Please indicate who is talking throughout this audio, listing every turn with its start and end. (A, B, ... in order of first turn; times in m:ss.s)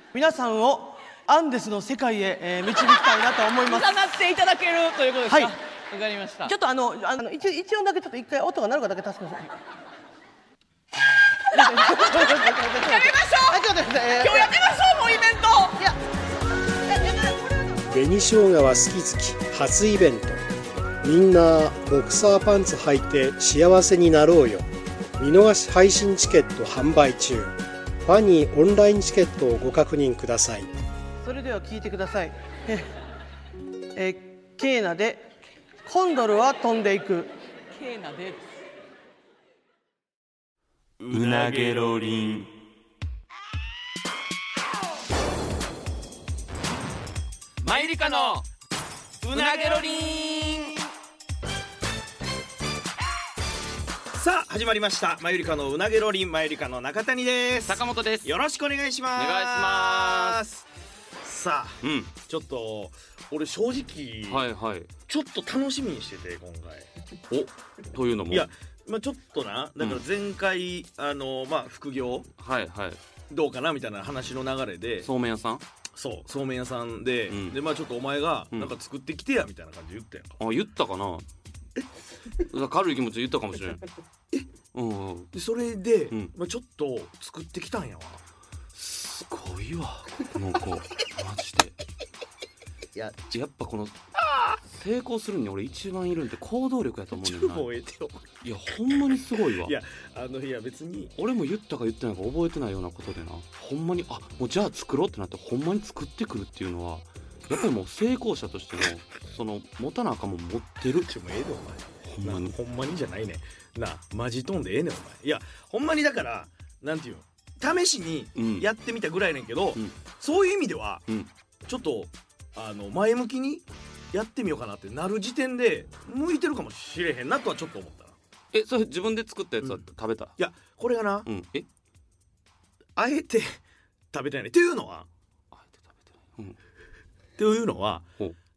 0:00.1-0:04.0 A
0:03.6-0:06.5 B
0:05.3-0:05.5 A
0:06.4-0:09.5 A
0:11.5-0:13.6 B
0:11.5-0:14.5 A
0:14.2-0:15.8 B
0:16.9-0:17.4 A
0:17.9-0:20.4 C
0:21.0-0:24.7 C
0:25.2-0:30.7 C
0:31.2-0:32.9 A
0:34.0-0:35.3 A
0:35.8-0:37.3 A
0:37.7-0:38.4 B
0:41.0-0:41.9 D
0:41.1-0:42.5 E
0:47.6-0:48.4 E
0:49.2-0:50.0 D
0:49.3-0:50.8 E
0:54.1-1:00.7 D
0:57.7-0:58.3 E
0:59.2-1:00.4 E
1:01.2-1:04.5 D
1:01.8-1:02.1 E
1:04.3-1:04.9 E
1:05.1-1:06.9 D
1:07.3-1:08.5 E
1:08.3-1:12.3 D
1:12.4-1:13.0 E
1:13.3-1:15.1 D
1:15.0-1:15.6 E
1:15.9-1:20.4 D
1:17.3-1:17.6 E
1:20.4-1:21.2 E
1:22.4-1:23.8 E
1:24.7-1:25.3 E
1:25.3-1:28.2 D
1:28.7-1:31.8 E
1:32.9-1:33.3 D
1:33.3-1:34.0 E
1:34.3-1:34.6 D
1:34.7-1:37.7 E
1:37.2-1:38.3 D
1:38.4-1:39.8 E
1:39.5-1:41.1 D
1:41.2-1:51.1 E
1:51.1-2:01.1 D
1:52.1-1:52.5 E
1:58.4-1:58.7 E
2:01.7-2:08.2 D
2:08.5-2:10.3 E
2:10.4-2:11.3 D
2:11.2-2:11.7 E
2:13.0-2:13.6 D
2:14.1-2:15.1 D
2:15.5-2:16.6 E
2:17.4-2:18.1 D